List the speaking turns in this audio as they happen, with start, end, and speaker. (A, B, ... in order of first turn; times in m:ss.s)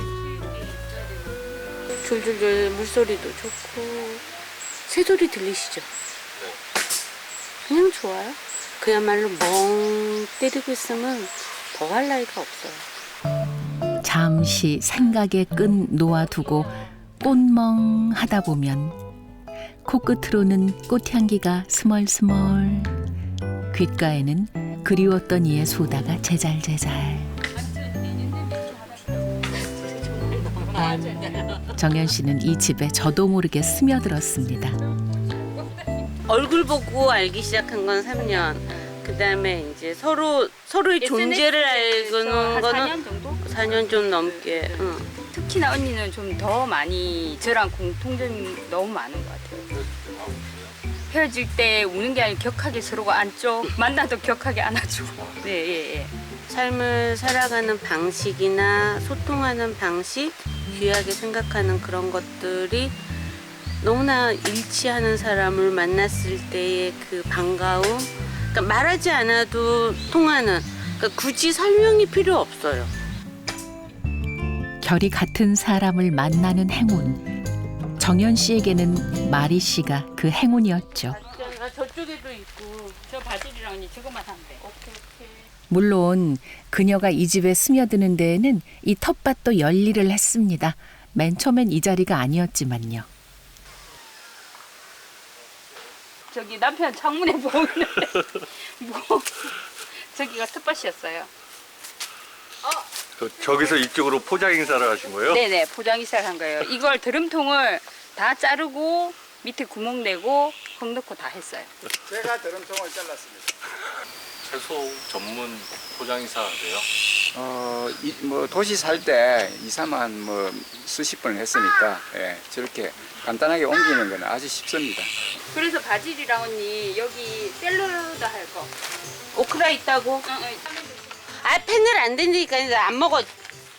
0:02.0-0:04.2 A
0:04.9-0:05.9 A
0:07.7-0:12.8 A
0:14.0-0:19.0 B
0:19.8-0:23.0 B
0:23.7-0:27.3 B
0:27.8-0:28.8 C
0:30.6-0:31.4 C
0:31.8-0:34.8 B
0:36.2-0:45.1 A
0:38.4-0:38.9 C
0:41.0-0:49.6 C
0:50.1-0:50.5 D
0:51.1-0:56.1 C
0:56.5-1:03.0 A
1:03.8-1:12.9 A
1:14.8-1:17.2 B
1:18.0-1:21.2 B
1:21.1-1:23.0 A
1:23.1-1:24.6 C
1:24.6-1:25.5 A
1:25.7-1:33.1 B
1:36.3-1:41.3 C
1:43.2-1:45.4 E
1:45.3-1:51.7 C
1:52.1-1:53.5 F
1:54.4-1:56.9 D
1:57.3-2:05.1 F
2:05.5-2:08.7 C
2:09.4-2:10.2 A
2:09.6-2:10.6 C
2:11.4-2:13.3 A